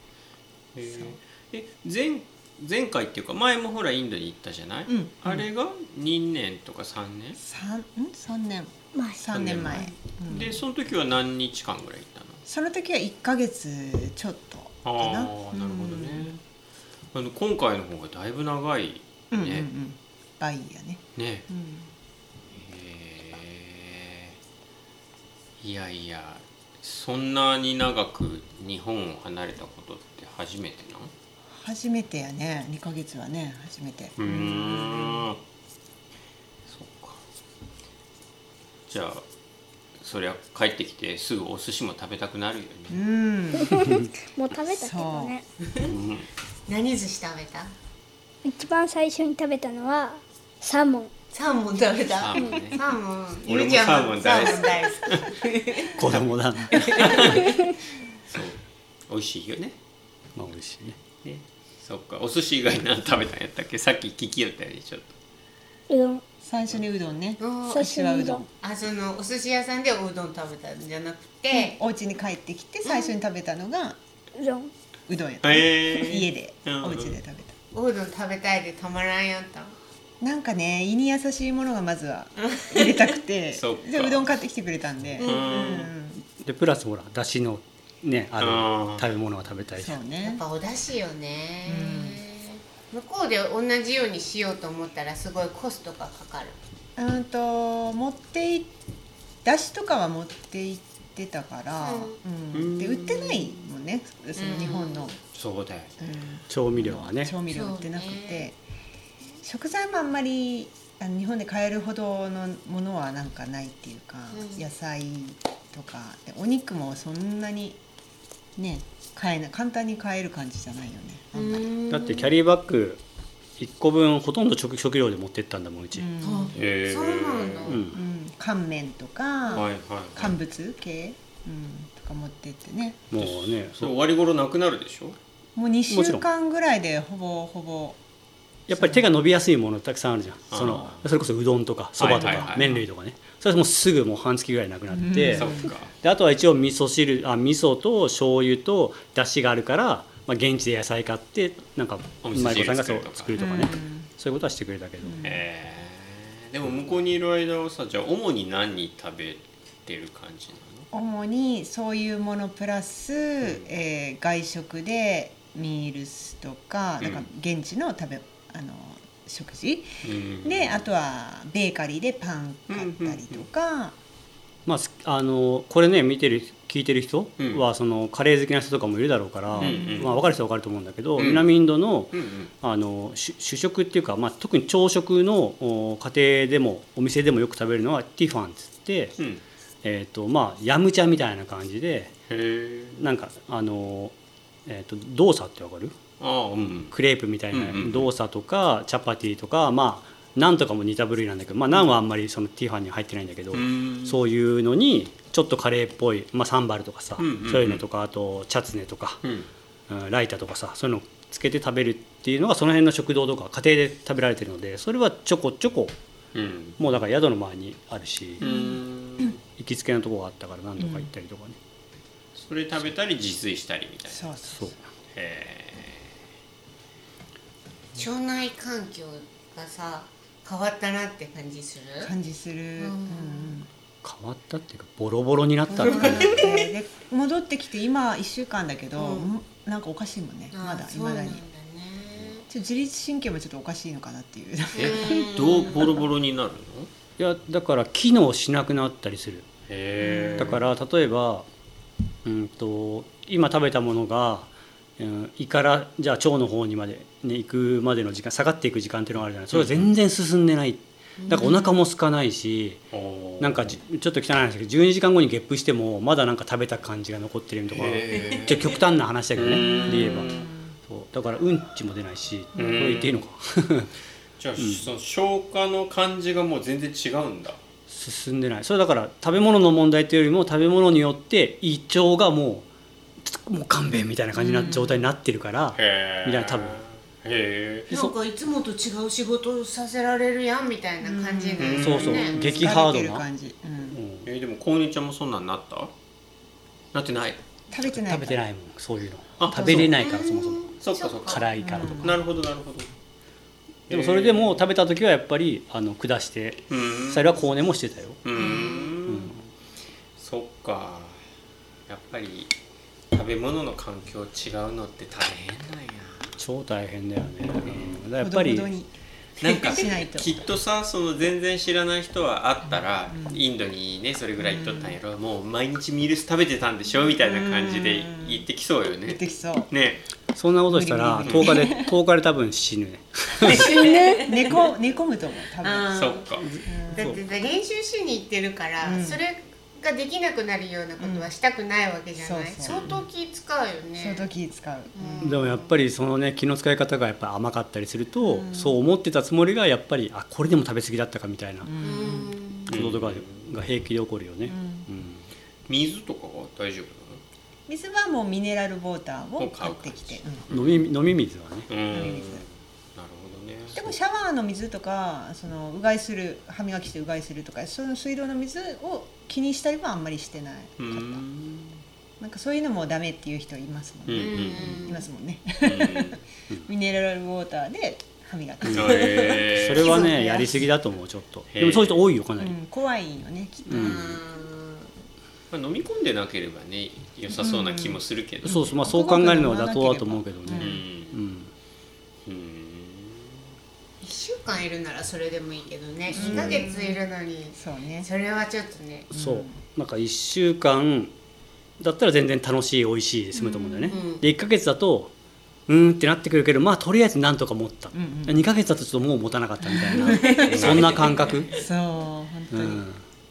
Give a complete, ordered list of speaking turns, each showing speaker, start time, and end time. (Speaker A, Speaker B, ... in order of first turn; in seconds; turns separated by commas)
Speaker A: 0.8-7.4, Speaker B: 4.9-5.4, Speaker B: 7.4-10.6, Speaker C: 8.9-9.2, Speaker A: 9.3-12.4, Speaker B: 12.5-16.3, Speaker A: 14.8-16.4, Speaker A: 17.1-19.7, Speaker B: 19.3-21.9, Speaker A: 21.2-21.5, Speaker A: 22.5-24.4, Speaker A: 25.6-31.1, Speaker B: 31.5-35.3, Speaker A: 34.2-35.4, Speaker A: 36.7-37.2, Speaker A: 38.9-39.2, Speaker A: 40.0-43.0, Speaker B: 42.9-43.9, Speaker C: 43.6-45.5, Speaker B: 44.7-45.3, Speaker A: 45.8-46.3, Speaker D: 46.7-47.7, Speaker C: 48.5-51.1, Speaker D: 51.3-55.9, Speaker A: 52.2-55.3, Speaker C: 52.4-52.6, Speaker E: 55.9-57.2, Speaker A: 56.7-57.5, Speaker C: 57.4-57.7, Speaker A: 58.3-59.8, Speaker E: 60.4-61.0, Speaker A: 61.2-65.1, Speaker C: 65.9-66.2, Speaker B: 66.4-68.5, Speaker D: 67.4-67.8, Speaker C: 67.7-68.5, Speaker D: 68.5-71.8, Speaker B: 71.5-74.0, Speaker D: 72.8-73.1, Speaker C: 74.3-74.7, Speaker B: 75.1-77.5, Speaker A: 75.4-77.2, Speaker D: 77.7-79.8, Speaker B: 80.2-86.2, Speaker A: 83.5-84.3, Speaker D: 85.2-85.9, Speaker A: 85.2-85.9, Speaker E: 86.4-90.0, Speaker A: 88.4-89.0, Speaker B: 89.8-90.4, Speaker D: 90.2-96.6, Speaker B: 91.7-92.2, Speaker B: 97.0-98.7, Speaker B: 99.4-105.2, Speaker D: 101.8-102.2, Speaker A: 102.5-103.5, Speaker D: 104.3-105.1, Speaker A: 105.3-105.9, Speaker B: 106.0-108.6, Speaker E: 106.5-107.3, Speaker D: 107.5-108.5, Speaker B: 109.4-117.8, Speaker D: 114.3-114.6, Speaker B: 118.6-121.7, Speaker D: 121.3-122.3, Speaker E: 121.9-123.0, Speaker E: 123.6-126.1, Speaker B: 126.0-126.5, Speaker D: 126.2-127.8, Speaker A: 126.5-127.8, Speaker E: 127.7-128.0, Speaker B: 127.9-133.0, Speaker A: 129.5-130.3, Speaker E: 133.1-133.9, Speaker A: 133.2-135.2, Speaker B: 135.6-138.0, Speaker E: 135.9-136.3, Speaker E: 138.7-155.3, Speaker B: 138.8-139.0, Speaker A: 140.5-141.0, Speaker A: 142.0-142.8, Speaker B: 145.0-145.7, Speaker A: 145.2-145.9, Speaker A: 152.2-153.4, Speaker B: 153.4-154.1, Speaker B: 155.1-155.4, Speaker A: 155.2-160.9, Speaker B: 160.9-174.0, Speaker A: 170.0-170.8, Speaker A: 172.7-173.4, Speaker E: 174.7-189.2, Speaker A: 177.4-177.6, Speaker B: 179.6-180.3, Speaker A: 179.6-180.2, Speaker A: 181.2-181.5, Speaker A: 182.1-182.5, Speaker E: 189.8-192.1, Speaker A: 192.3-193.0, Speaker E: 193.0-194.1, Speaker E: 194.7-196.0, Speaker A: 196.2-196.9, Speaker E: 196.9-209.2, Speaker A: 197.5-198.1, Speaker A: 203.5-204.2, Speaker A: 207.2-207.8, Speaker E: 209.9-215.9, Speaker A: 216.3-216.8, Speaker E: 216.8-218.4, Speaker A: 218.4-219.4, Speaker E: 219.6-221.6, Speaker B: 220.8-221.1, Speaker A: 222.4-224.4, Speaker B: 224.1-224.7, Speaker A: 225.1-226.1, Speaker D: 227.9-232.1, Speaker B: 232.0-233.7, Speaker D: 232.8-233.6, Speaker E: 234.0-236.5, Speaker D: 235.8-236.6, Speaker B: 235.8-241.4, Speaker D: 239.0-239.3, Speaker D: 240.5-242.4, Speaker B: 242.5-245.9, Speaker D: 244.8-245.8, Speaker A: 244.8-246.9, Speaker E: 247.2-249.5, Speaker A: 249.7-250.6, Speaker D: 250.0-250.3, Speaker B: 250.0-250.5, Speaker E: 250.4-251.5, Speaker E: 252.2-262.8, Speaker A: 259.5-259.9, Speaker D: 261.2-261.7, Speaker A: 262.9-263.8, Speaker E: 263.4-270.3, Speaker A: 267.7-268.8, Speaker A: 269.4-270.5, Speaker E: 270.9-273.9, Speaker A: 272.6-273.2, Speaker A: 274.4-277.6, Speaker E: 274.6-274.9, Speaker E: 277.9-282.7, Speaker E: 283.2-286.8, Speaker B: 284.4-285.0, Speaker A: 285.8-288.1, Speaker D: 287.9-292.4, Speaker B: 291.0-294.0, Speaker A: 291.6-292.5, Speaker E: 291.8-293.3, Speaker E: 293.9-294.3, Speaker A: 294.2-295.9, Speaker A: 296.9-297.4, Speaker B: 297.7-298.4, Speaker E: 297.8-300.6, Speaker A: 299.4-300.0, Speaker B: 299.5-299.9, Speaker D: 299.8-301.5, Speaker A: 300.8-302.9, Speaker E: 301.3-302.1, Speaker B: 301.6-302.2, Speaker A: 303.9-304.6, Speaker E: 303.9-308.2, Speaker A: 306.7-307.4, Speaker A: 308.2-309.3, Speaker B: 308.4-308.8, Speaker D: 308.4-308.9, Speaker E: 309.1-309.4, Speaker A: 310.2-311.2, Speaker A: 311.9-312.5, Speaker A: 313.1-316.4, Speaker E: 316.4-318.7, Speaker B: 318.2-320.5, Speaker A: 319.4-330.0, Speaker B: 323.1-323.4, Speaker B: 324.4-325.0, Speaker B: 327.2-328.4, Speaker B: 329.1-329.7, Speaker E: 330.4-333.8, Speaker B: 330.7-331.9, Speaker A: 331.2-331.5, Speaker D: 333.4-334.6, Speaker C: 333.6-334.3, Speaker B: 334.2-335.9, Speaker D: 335.6-336.3, Speaker A: 335.9-336.5, Speaker E: 336.6-337.2, Speaker B: 336.6-337.2, Speaker D: 336.9-344.3, Speaker B: 338.8-339.2, Speaker B: 341.0-341.3, Speaker B: 342.2-343.0, Speaker A: 342.6-343.0, Speaker B: 344.0-345.4, Speaker D: 344.9-345.7, Speaker E: 345.2-351.8, Speaker B: 348.2-348.8, Speaker B: 351.6-352.4, Speaker D: 351.8-352.8, Speaker A: 352.7-353.4, Speaker E: 352.7-355.3, Speaker B: 354.5-354.9, Speaker A: 355.7-357.2, Speaker B: 357.7-360.4, Speaker A: 359.4-360.9, Speaker E: 360.5-361.7, Speaker A: 361.7-363.9, Speaker B: 361.9-362.4, Speaker B: 363.7-371.2, Speaker A: 370.8-371.8, Speaker B: 372.2-380.6, Speaker A: 374.1-374.9, Speaker D: 374.2-375.1, Speaker A: 375.6-376.2, Speaker A: 378.7-380.1, Speaker E: 379.4-382.6, Speaker D: 379.8-380.4, Speaker A: 381.5-382.0, Speaker B: 382.4-384.2, Speaker D: 383.7-384.9, Speaker E: 383.7-384.0, Speaker A: 385.5-388.6, Speaker B: 388.4-390.8, Speaker E: 388.4-391.5, Speaker A: 390.5-391.2, Speaker A: 392.2-393.4, Speaker D: 394.0-399.1, Speaker B: 396.1-397.0, Speaker A: 396.2-396.6, Speaker B: 397.5-398.1, Speaker E: 399.1-401.1, Speaker B: 399.1-399.6, Speaker E: 401.8-405.1, Speaker D: 403.9-404.2, Speaker E: 405.7-411.5, Speaker B: 407.9-408.4, Speaker B: 409.6-410.9, Speaker A: 410.2-411.6, Speaker B: 411.5-412.9, Speaker E: 412.5-413.0